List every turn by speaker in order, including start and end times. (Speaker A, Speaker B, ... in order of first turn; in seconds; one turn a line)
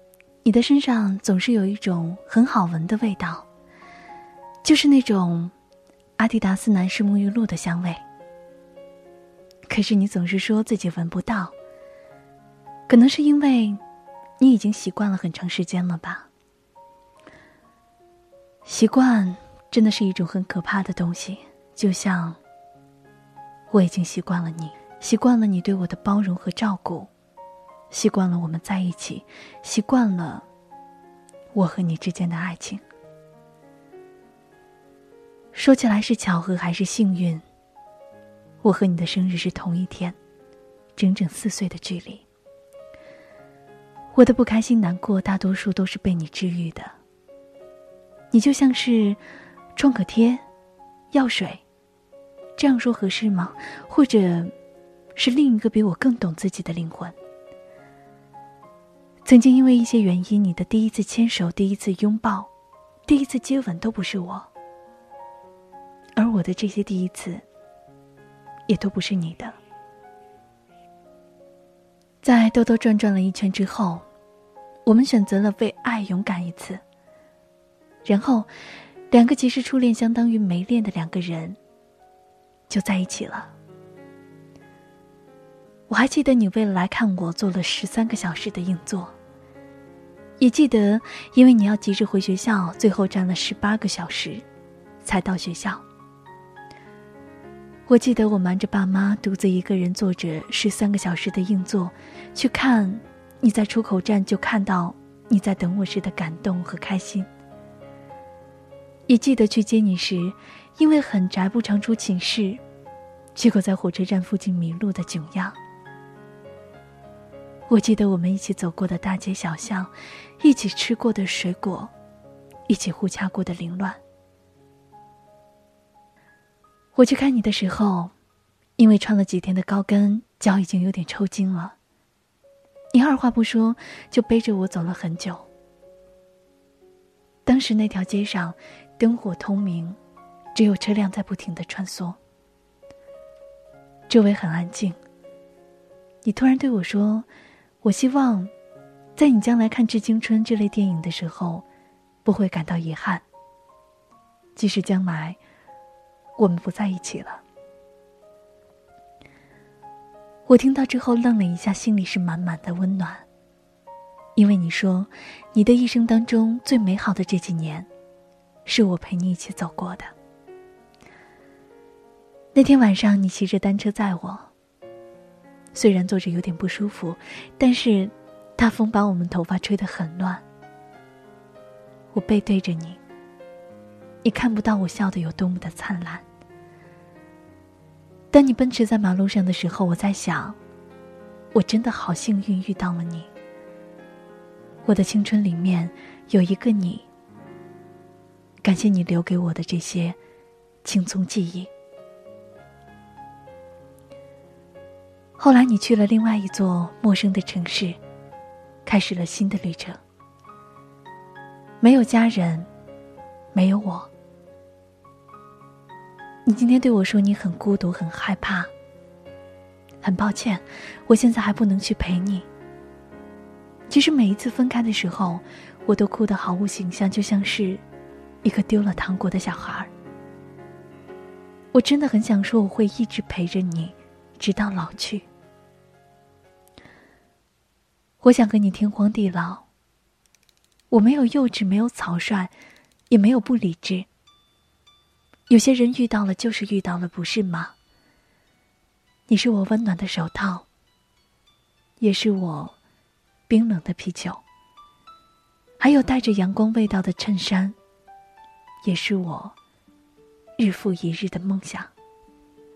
Speaker A: 0.4-3.5
Speaker A: 4.6-5.5
Speaker A: 6.2-8.0
Speaker A: 9.7-11.5
Speaker A: 12.9-13.8
Speaker A: 14.4-16.3
Speaker A: 18.6-22.4
Speaker A: 23.7-27.1
Speaker A: 27.9-30.5
Speaker A: 31.5-32.8
Speaker A: 35.5-37.4
Speaker A: 38.6-40.2
Speaker A: 41.0-42.2
Speaker A: 44.1-46.9
Speaker A: 48.3-49.2
Speaker A: 49.8-50.4
Speaker A: 51.1-51.6
Speaker A: 52.6-54.5
Speaker A: 55.2-57.1
Speaker A: 59.2-62.5
Speaker A: 63.1-64.5
Speaker A: 66.2-67.4
Speaker A: 68.7-69.6
Speaker A: 72.2-74.0
Speaker A: 74.8-76.8
Speaker A: 78.0-78.5
Speaker A: 79.1-81.6
Speaker A: 82.7-83.5
Speaker A: 85.9-89.2
Speaker A: 90.4-94.4
Speaker A: 95.0-95.8
Speaker A: 97.9-107.3
Speaker A: 109.1-112.6
Speaker A: 113.3-115.6
Speaker A: 117.7-121.9
Speaker A: 122.7-124.0
Speaker A: 127.0-128.1
Speaker A: 128.8-131.8
Speaker A: 132.9-135.5
Speaker A: 137.5-140.0
Speaker A: 140.6-142.2
Speaker A: 144.1-145.0
Speaker A: 146.2-147.3
Speaker A: 147.8-148.5
Speaker A: 149.2-151.7
Speaker A: 152.2-153.2
Speaker A: 154.6-155.4
Speaker A: 156.4-157.4
Speaker A: 160.5-163.2
Speaker A: 164.4-167.9
Speaker A: 168.7-170.1
Speaker A: 172.5-174.5
Speaker A: 175.7-180.4
Speaker A: 182.1-183.0
Speaker A: 184.2-186.2
Speaker A: 188.3-190.6
Speaker A: 191.5-193.3
Speaker A: 194.8-197.1
Speaker A: 198.6-200.2
Speaker A: 200.8-201.7
Speaker A: 205.4-208.0
Speaker A: 208.8-210.0
Speaker A: 211.8-212.7
Speaker A: 213.5-214.1
Speaker A: 216.4-218.7
Speaker A: 220.0-222.5
Speaker A: 223.9-227.8
Speaker A: 228.4-229.9
Speaker A: 231.7-235.3
Speaker A: 238.2-239.7
Speaker A: 240.9-242.5
Speaker A: 243.1-244.1
Speaker A: 245.5-247.7
Speaker A: 249.3-250.7
Speaker A: 252.0-252.8
Speaker A: 253.5-254.4
Speaker A: 255.8-257.8
Speaker A: 258.8-259.6
Speaker A: 260.6-261.9